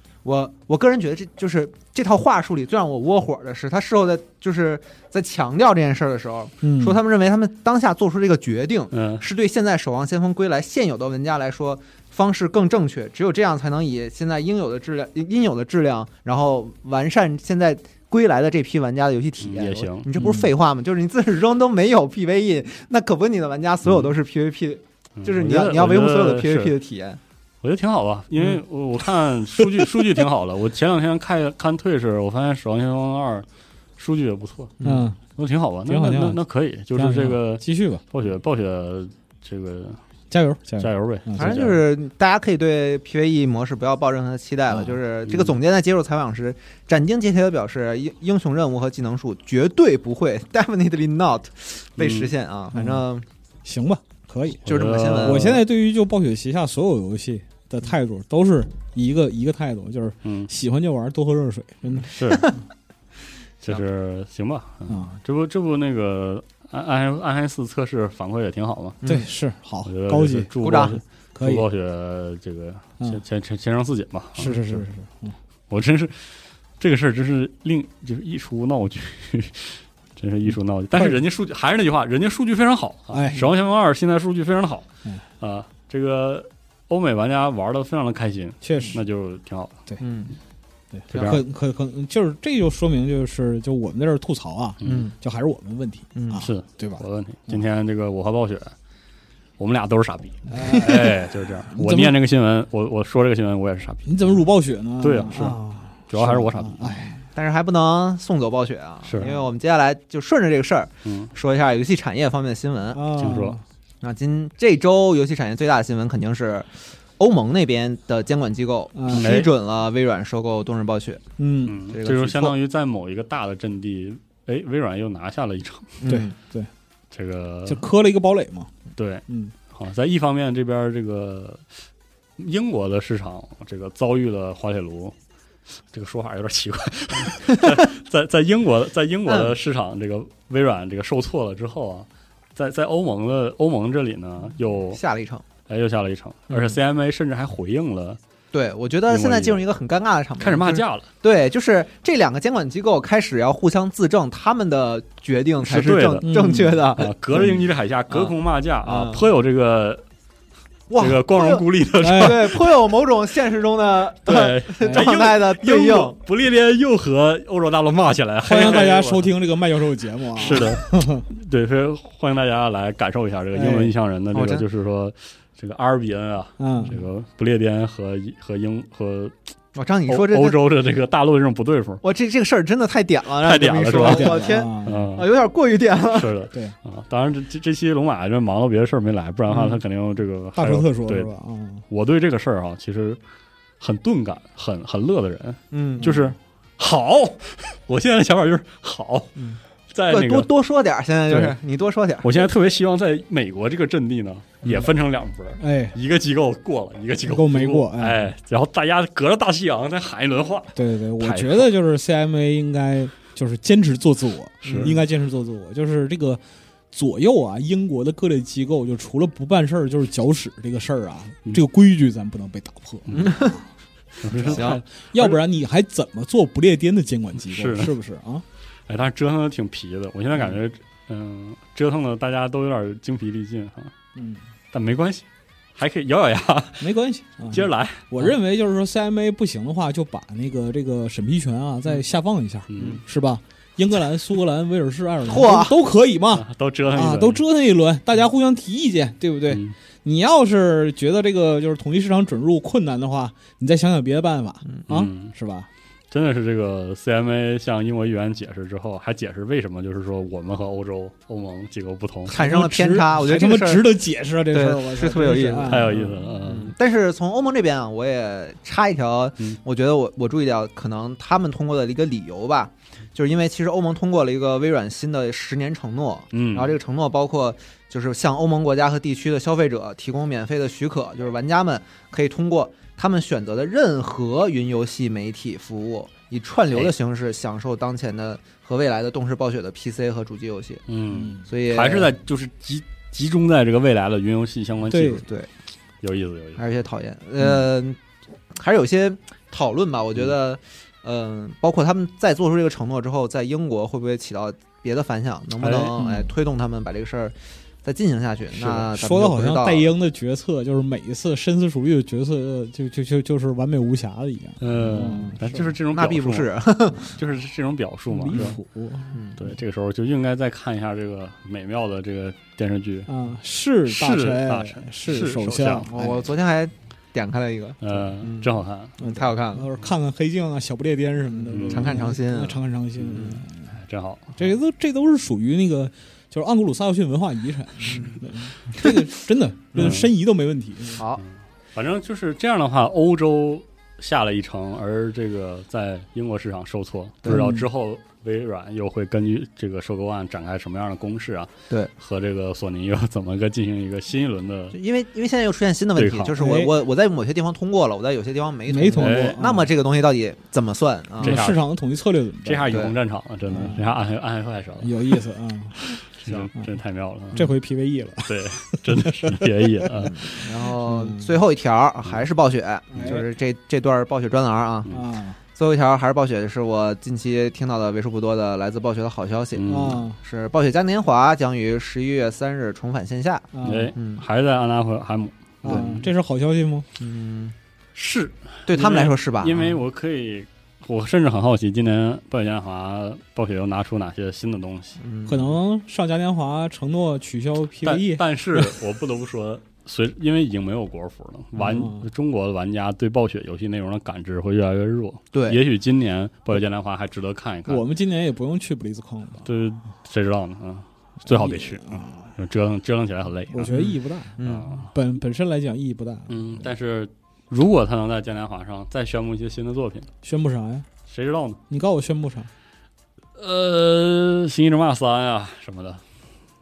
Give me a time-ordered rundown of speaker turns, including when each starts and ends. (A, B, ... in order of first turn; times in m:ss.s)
0:00.2-0:27.2 A
0:06.6-0:07.0 B
0:08.9-0:09.2 C
0:19.4-0:20.1 C
0:20.2-0:20.5 B
0:25.2-0:26.7 C
0:27.6-0:33.4 C
0:34.0-0:34.8 C
0:34.8-0:35.0 A
0:34.8-0:35.2 B
0:35.3-0:40.0 C
0:35.9-0:36.4 B
0:36.9-0:38.0 B
0:40.3-0:41.7 B
0:40.8-0:41.8 C
0:41.4-0:53.2 A
0:45.3-0:45.5 C
0:52.0-0:52.3 C
0:52.7-0:53.0 B
0:53.6-1:02.4 B
0:54.6-0:55.6 C
0:54.6-0:55.6 A
1:00.2-1:00.5 C
1:02.1-1:02.5 C
1:03.6-1:09.0 C
1:04.9-1:05.2 B
1:09.0-1:10.5 B
1:09.8-1:14.8 C
1:10.6-1:11.0 A
1:11.3-1:11.6 B
1:14.4-1:15.4 B
1:15.7-1:24.9 C
1:23.1-1:23.5 B
1:25.4-1:29.7 C
1:28.6-1:29.0 B
1:30.0-1:30.4 A
1:30.9-1:37.6 B
1:31.1-1:31.4 A
1:31.1-1:31.4 C
1:34.8-1:35.1 C
1:34.8-1:35.1 A
1:36.1-1:36.4 A
1:36.4-1:38.7 C
1:39.6-1:44.2 C
1:40.5-1:42.1 B
1:44.0-1:47.2 B
1:45.0-1:47.1 C
1:47.3-1:53.2 A
1:49.0-1:49.3 C
1:51.0-1:51.3 C
1:52.9-1:53.6 B
1:53.2-1:53.6 C
1:54.0-2:01.2 A
1:58.9-1:59.3 B
1:59.1-1:59.5 C
2:01.4-2:01.8 B
2:01.6-2:06.0 C
2:01.9-2:02.5 A
2:06.0-2:06.3 A
2:06.0-2:06.7 B
2:07.1-2:07.8 C
2:07.6-2:08.7 B
2:09.0-2:11.6 C
2:09.3-2:09.5 B
2:12.4-2:15.1 C
2:15.9-2:25.0 C
2:19.3-2:19.5 A
2:24.9-2:25.4 A
2:25.7-2:28.2 C
2:28.5-2:37.1 A
2:29.1-2:29.6 C
2:30.4-2:31.1 C
2:35.6-2:40.0 C
2:36.2-2:36.8 B
2:38.8-2:39.2 A
2:40.9-2:46.2 A
2:41.0-2:42.7 C
2:42.0-2:42.4 B
2:44.2-2:49.3 C
2:44.8-2:45.1 B
2:48.4-2:51.2 B
2:48.5-2:48.8 A
2:50.3-2:59.3 C
2:53.5-2:53.9 B
2:54.3-2:54.6 A
2:56.6-2:57.0 B
2:59.7-3:00.6 A
3:00.1-3:02.0 C
3:02.0-3:06.3 A
3:03.4-3:05.3 C
3:04.0-3:05.1 B
3:06.1-3:11.3 C
3:06.5-3:06.8 B
3:10.6-3:11.8 B
3:11.9-3:13.2 C
3:13.8-3:19.4 C
3:15.7-3:16.1 A
3:19.4-3:22.4 A
3:19.9-3:20.5 C
3:21.3-3:21.5 C
3:22.2-3:31.7 C
3:25.6-3:26.0 B
3:27.2-3:28.3 B
3:30.7-3:43.6 B
3:34.6-3:34.9 A
3:34.6-3:35.0 C
3:43.1-3:43.6 A
3:44.2-3:45.4 C
3:44.3-3:48.4 B
3:44.4-3:44.8 A
3:47.5-3:47.9 C
3:48.9-3:53.9 C
3:54.2-3:54.4 B
3:54.7-3:55.2 C
3:55.8-3:56.9 C
3:56.8-4:15.7 B
3:57.5-3:58.3 C
4:02.7-4:03.0 C
4:05.2-4:05.8 A
4:06.3-4:07.4 C
4:09.5-4:09.7 C
4:14.9-4:15.3 C
4:16.1-4:22.4 C
4:22.3-4:24.0 A
4:22.3-4:26.1 B
4:24.5-4:50.8 A
4:25.6-4:26.7 C
4:36.3-4:36.7 C
4:50.9-4:55.3 C
4:51.1-4:51.4 B
4:51.4-4:52.1 A
4:54.9-4:55.2 B
4:55.2-4:55.5 A
4:56.0-4:56.6 C
4:56.6-4:58.0 A
4:58.5-5:09.9 A
5:05.6-5:06.0 C
5:06.0-5:06.3 B
5:08.6-5:08.9 C
5:08.9-5:15.7 B
5:14.6-5:18.6 C
5:15.9-5:17.2 A
5:18.1-5:19.2 B
5:19.1-5:19.4 A
5:19.4-5:23.1 C
5:23.1-5:26.3 B
5:23.8-5:25.9 C
5:25.9-5:29.7 A
5:27.8-5:29.0 C
5:29.0-5:33.8 B
5:31.5-5:32.1 C
5:31.5-5:33.4 A
5:33.0-5:34.5 C
5:34.4-5:41.0 B
5:37.9-5:38.2 A
5:39.7-5:40.1 C
5:41.0-5:41.2 A
5:41.2-5:54.8 C
5:47.2-5:47.6 A
5:54.7-6:01.4 A
5:56.0-5:56.4 C
5:56.4-5:56.7 B
5:58.7-5:59.7 B
5:59.0-5:59.4 C
6:01.2-6:01.6 C
6:01.2-6:02.8 B
6:02.4-6:05.0 C
6:02.7-6:02.9 A
6:03.5-6:03.9 B
6:04.8-6:05.9 B
6:05.9-6:07.5 C
6:07.3-6:10.1 B
6:08.2-6:10.1 C
6:10.0-6:14.9 A
6:10.8-6:11.3 B
6:12.9-6:13.2 B
6:14.9-6:15.4 B
6:15.5-6:24.2 A
6:19.6-6:20.0 C
6:19.7-6:20.2 B
6:23.5-6:23.9 B
6:23.6-6:26.1 C
6:25.6-6:26.9 B
6:27.0-6:27.5 A
6:27.9-6:35.0 C
6:28.7-6:29.7 A
6:35.0-6:35.5 A
6:35.3-6:38.7 B
6:37.8-6:47.8 C
6:41.6-6:42.1 B
6:45.3-6:45.6 A
6:47.7-6:49.5 B
6:49.4-6:53.7 C
6:51.2-6:52.3 B
6:53.5-6:56.7 B
6:53.7-6:54.8 A
6:54.4-6:54.9 C
6:56.3-7:00.1 C
7:00.2-7:00.9 B
7:01.1-7:01.6 C
7:01.7-7:02.5 B
7:03.4-7:06.0 C